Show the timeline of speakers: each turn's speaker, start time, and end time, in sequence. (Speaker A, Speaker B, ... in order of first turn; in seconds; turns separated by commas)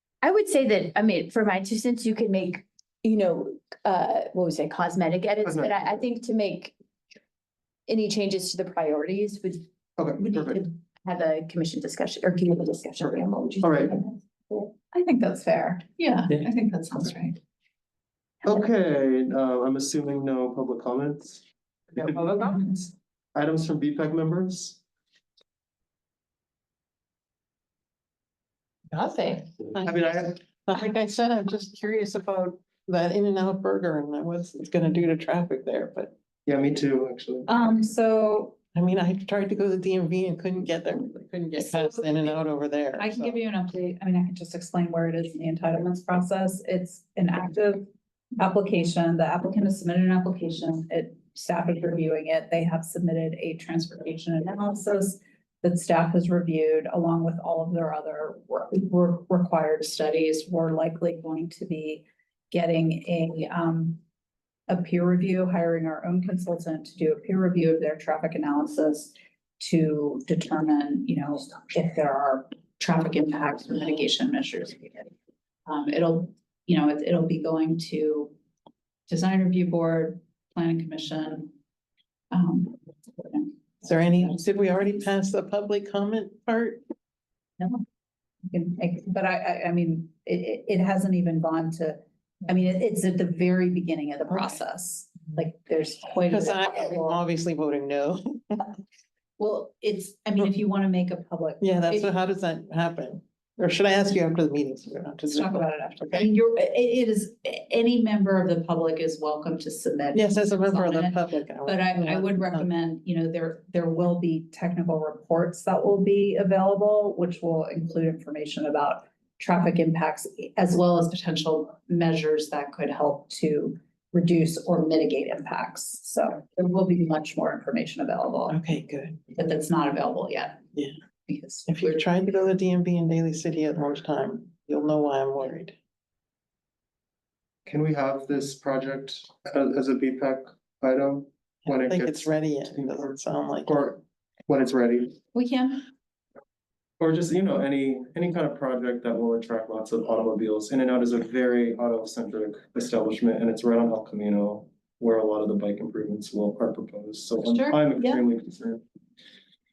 Speaker A: 0.2-6.7, Speaker B: 5.4-5.9, Speaker A: 7.9-9.6, Speaker B: 10.0-10.6, Speaker A: 10.2-14.7, Speaker B: 13.6-14.0, Speaker C: 14.7-17.4, Speaker B: 18.4-22.4, Speaker D: 22.1-22.6, Speaker C: 22.4-22.9, Speaker B: 23.3-24.8, Speaker D: 28.9-36.1, Speaker B: 29.8-30.3, Speaker B: 36.5-37.5, Speaker C: 37.5-38.6, Speaker D: 38.7-43.4, Speaker C: 41.6-42.3, Speaker C: 43.0-64.0, Speaker C: 64.7-75.1, Speaker C: 75.7-78.3, Speaker C: 79.1-81.5, Speaker C: 82.3-84.4, Speaker D: 83.8-86.8, Speaker C: 88.5-97.2, Speaker D: 94.3-94.6, Speaker D: 96.2-98.7, Speaker C: 99.4-102.2, Speaker D: 101.6-106.3, Speaker C: 105.3-128.6, Speaker D: 110.1-112.7, Speaker D: 128.5-129.2, Speaker C: 129.3-130.6, Speaker C: 131.3-132.1, Speaker D: 131.7-135.7, Speaker B: 137.7-142.9, Speaker D: 141.7-143.8, Speaker B: 143.7-145.2, Speaker C: 145.3-145.9, Speaker B: 147.0-158.8, Speaker C: 157.5-158.2